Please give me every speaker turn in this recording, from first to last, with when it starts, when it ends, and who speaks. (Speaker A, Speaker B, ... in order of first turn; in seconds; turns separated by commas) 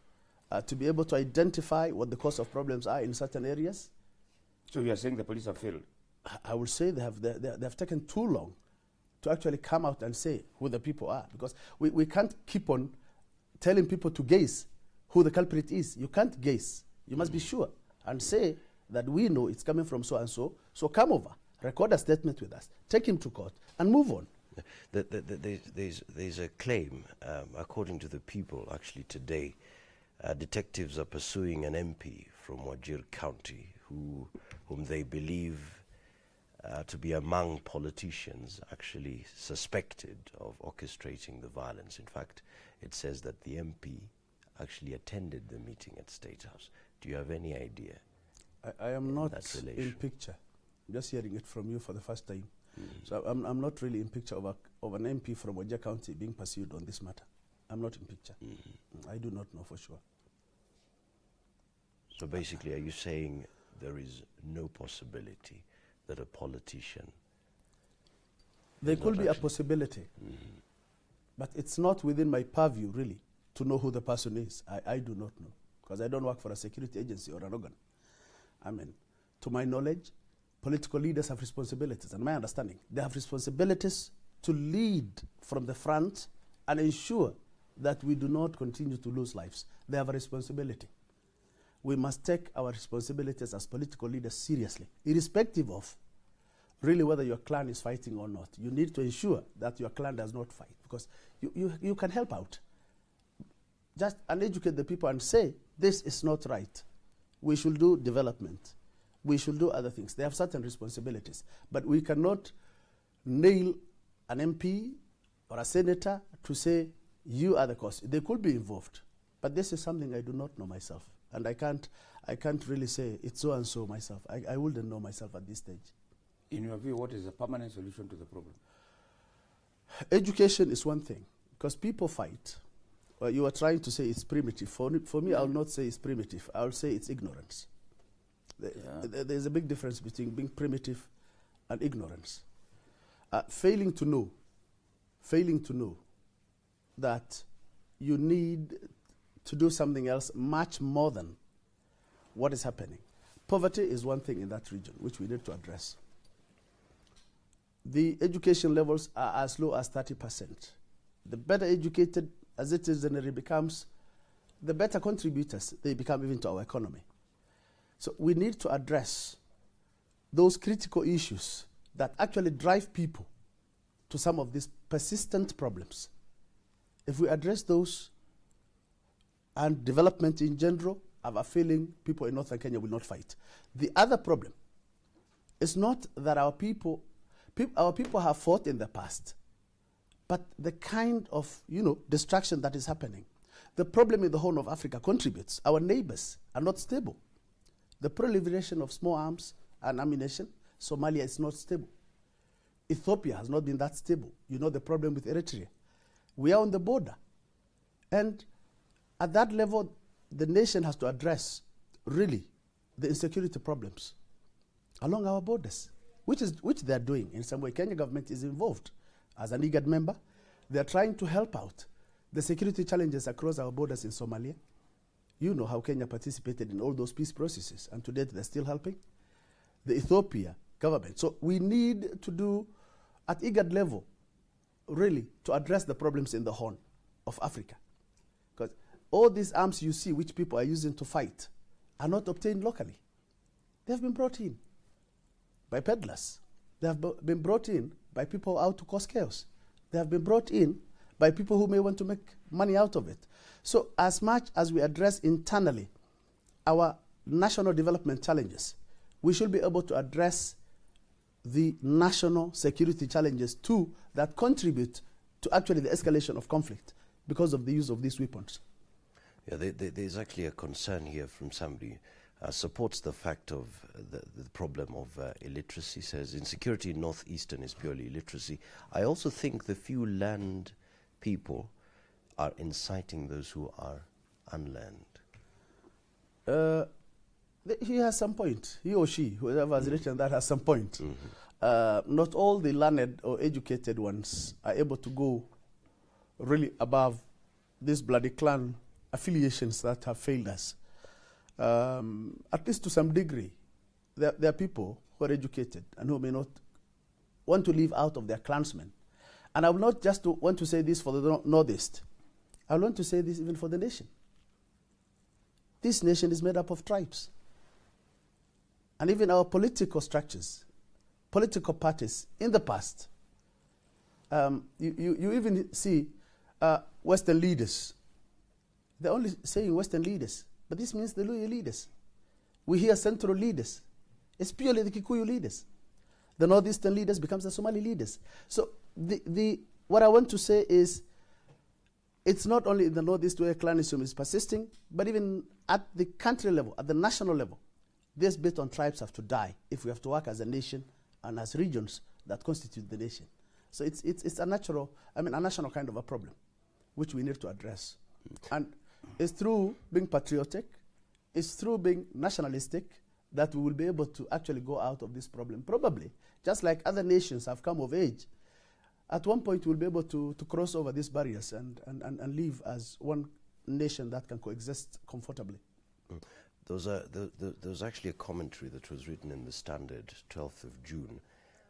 Speaker A: 0.5-3.9, Speaker B: 4.7-5.8, Speaker A: 6.2-8.6, Speaker A: 9.2-12.9, Speaker A: 13.6-24.3, Speaker C: 24.7-29.6, Speaker C: 30.2-35.8, Speaker C: 36.6-48.0, Speaker A: 48.6-58.4, Speaker C: 49.2-50.0, Speaker A: 58.9-60.0, Speaker C: 62.1-67.1, Speaker A: 68.8-70.1, Speaker C: 68.8-69.5, Speaker A: 71.4-77.8, Speaker A: 78.6-90.9, Speaker A: 91.8-96.0, Speaker A: 96.8-102.6, Speaker A: 104.0-106.8, Speaker A: 107.4-112.5, Speaker A: 113.2-115.0, Speaker A: 115.5-125.9, Speaker B: 126.5-128.6, Speaker A: 130.1-132.6, Speaker A: 133.2-137.7, Speaker A: 138.6-141.1, Speaker B: 138.8-139.0, Speaker A: 141.7-142.4, Speaker A: 143.3-144.3, Speaker A: 145.2-146.0, Speaker A: 147.0-147.4, Speaker A: 148.0-148.9, Speaker A: 149.4-151.4, Speaker A: 152.3-156.0, Speaker A: 157.8-163.9, Speaker A: 164.6-167.0, Speaker A: 168.0-169.4, Speaker A: 170.3-173.3, Speaker A: 174.1-176.1, Speaker A: 177.1-178.1, Speaker A: 179.6-184.5, Speaker A: 185.6-189.3, Speaker A: 190.3-197.2, Speaker A: 198.0-201.9, Speaker A: 202.9-205.7, Speaker A: 206.4-207.2, Speaker A: 208.1-208.4, Speaker A: 209.2-214.1, Speaker A: 215.0-220.2, Speaker A: 220.7-224.6, Speaker A: 225.4-229.0, Speaker A: 229.8-232.7, Speaker A: 233.3-234.1, Speaker A: 234.9-237.8, Speaker A: 238.6-243.0, Speaker A: 243.8-244.6, Speaker A: 245.7-255.9, Speaker A: 256.6-260.6, Speaker A: 261.4-268.6, Speaker C: 269.4-281.7, Speaker C: 282.4-285.2, Speaker A: 286.4-286.9, Speaker A: 287.6-295.5, Speaker A: 296.4-297.2, Speaker A: 297.8-300.8, Speaker A: 301.6-303.6, Speaker A: 304.1-306.6, Speaker A: 307.4-308.9, Speaker A: 309.5-312.0, Speaker A: 312.7-314.1, Speaker A: 315.8-317.3, Speaker A: 319.0-320.6, Speaker A: 321.3-323.1, Speaker A: 324.3-327.9, Speaker A: 329.0-331.9, Speaker A: 332.7-333.8, Speaker A: 334.4-335.6, Speaker A: 336.4-341.0, Speaker A: 342.2-347.6, Speaker A: 348.1-356.4, Speaker A: 356.9-360.8, Speaker A: 361.3-368.3, Speaker A: 369.1-375.6, Speaker C: 376.1-381.2